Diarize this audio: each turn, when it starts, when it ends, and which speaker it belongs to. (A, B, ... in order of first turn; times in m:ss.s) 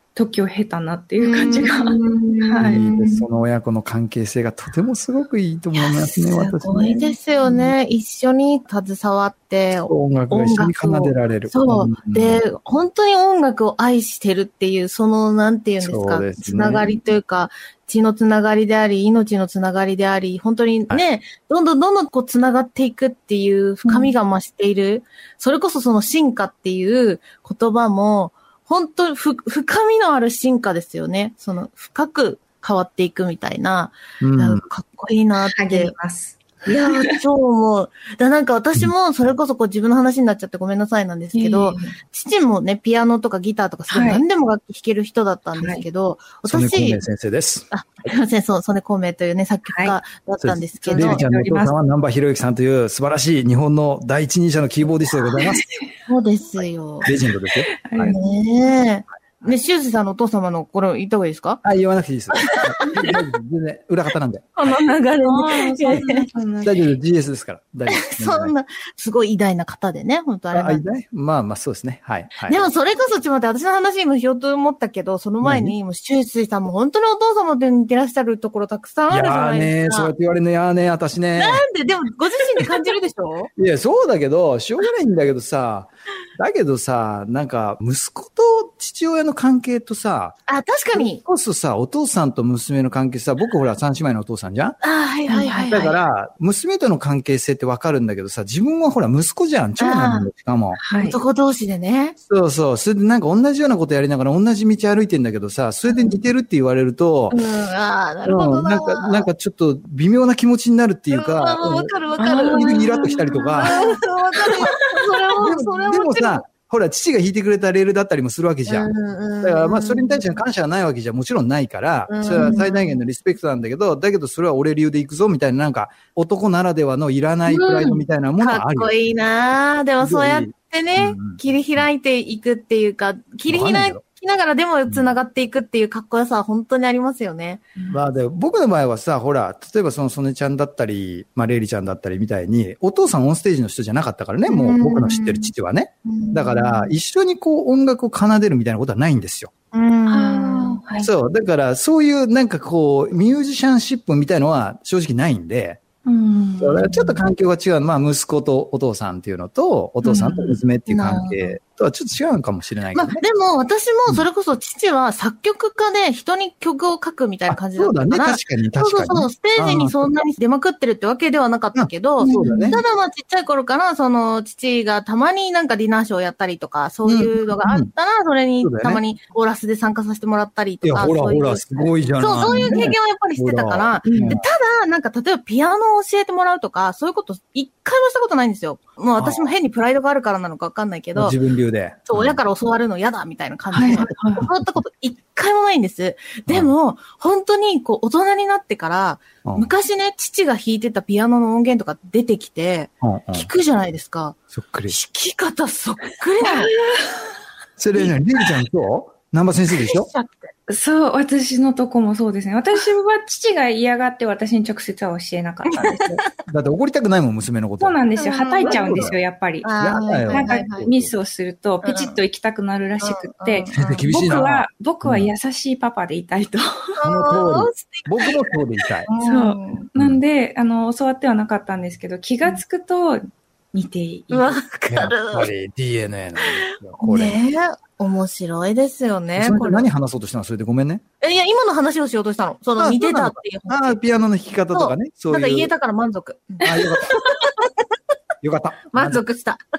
0:00.2-0:02.8 A
0:01.2-0:03.3 B
0:02.6-0:07.7 C
0:05.7-0:35.9 B
0:09.9-0:12.4 C
0:15.8-0:16.9 C
0:23.8-0:24.1 A
0:34.2-0:34.6 C
0:35.5-0:37.2 A
0:36.7-0:47.0 B
0:41.3-0:42.0 A
0:43.9-0:44.2 A
0:45.6-0:45.8 A
0:46.5-0:47.7 C
0:47.7-0:51.2 B
0:50.4-0:55.6 C
0:50.9-0:51.7 A
0:55.2-0:55.9 A
0:56.1-0:57.1 B
0:57.0-0:58.2 C
0:57.9-0:58.3 A
0:58.1-1:01.6 B
1:01.6-1:04.5 C
1:02.3-1:03.2 B
1:04.6-1:06.3 B
1:05.2-1:06.8 A
1:06.6-1:08.5 C
1:07.9-1:10.8 B
1:10.5-1:12.7 C
1:12.5-1:20.1 B
1:15.4-1:15.8 C
1:19.1-1:21.6 C
1:21.4-1:23.5 B
1:23.6-1:30.4 C
1:30.5-1:31.2 B
1:30.9-1:34.8 C
1:34.8-1:36.0 B
1:35.3-1:35.8 A
1:35.7-1:40.8 C
1:39.8-1:40.3 B
1:40.8-1:41.2 A
1:41.0-1:42.2 B
1:42.2-1:47.4 C
1:45.9-1:46.2 B
1:47.3-1:49.3 B
1:48.2-1:51.9 C
1:51.1-1:56.5 B
1:52.2-1:55.0 A
1:52.5-1:53.8 C
1:55.4-1:58.9 C
1:58.7-2:00.4 B
1:59.4-2:08.9 C
2:02.1-2:03.0 B
2:02.4-2:02.7 A
2:07.5-2:17.7 B
2:10.0-2:11.9 C
2:13.5-2:14.0 C
2:14.9-2:15.1 C
2:17.9-2:29.5 C
2:24.5-2:25.5 B
2:26.0-2:26.9 B
2:29.7-2:30.8 B
2:30.1-2:31.1 A
2:31.0-2:35.8 C
2:36.0-2:37.2 A
2:36.6-2:43.2 C
2:40.0-2:40.6 A
2:40.9-2:41.6 B
2:42.9-3:11.4 B
2:47.5-2:50.1 C
2:51.8-2:52.8 C
2:52.2-2:52.8 A
2:57.0-2:57.9 C
2:58.6-2:59.0 C
3:00.8-3:04.4 C
3:02.5-3:02.8 A
3:04.1-3:04.4 A
3:09.2-3:09.5 C
3:11.2-3:12.4 C
3:12.1-3:26.7 B
3:13.7-3:14.5 A
3:14.5-3:14.8 C
3:16.5-3:16.7 C
3:19.4-3:19.7 C
3:23.0-3:23.5 C
3:24.5-3:25.0 C
3:26.4-3:27.3 A
3:27.8-3:30.1 C
3:29.8-3:30.5 B
3:30.7-3:36.2 A
3:35.7-3:36.1 B
3:36.0-3:38.0 C
3:37.8-3:47.0 A
3:38.2-3:40.9 B
3:38.6-3:39.2 C
3:39.8-3:41.1 C
3:41.8-3:42.2 B
3:43.0-3:44.1 B
3:43.7-3:45.3 C
3:47.0-3:48.3 B
3:47.0-3:49.1 C
3:49.0-3:49.8 B
3:49.2-3:53.2 A
3:50.0-3:50.2 C
3:53.7-3:54.6 A
3:54.3-3:55.5 B
3:54.9-3:57.4 C
3:56.4-3:59.9 B
3:59.4-4:01.0 C
4:01.2-4:04.0 B
4:02.8-4:05.7 C
4:04.7-4:07.7 B
4:06.6-4:07.1 C
4:08.4-4:09.2 C
4:08.9-4:09.6 B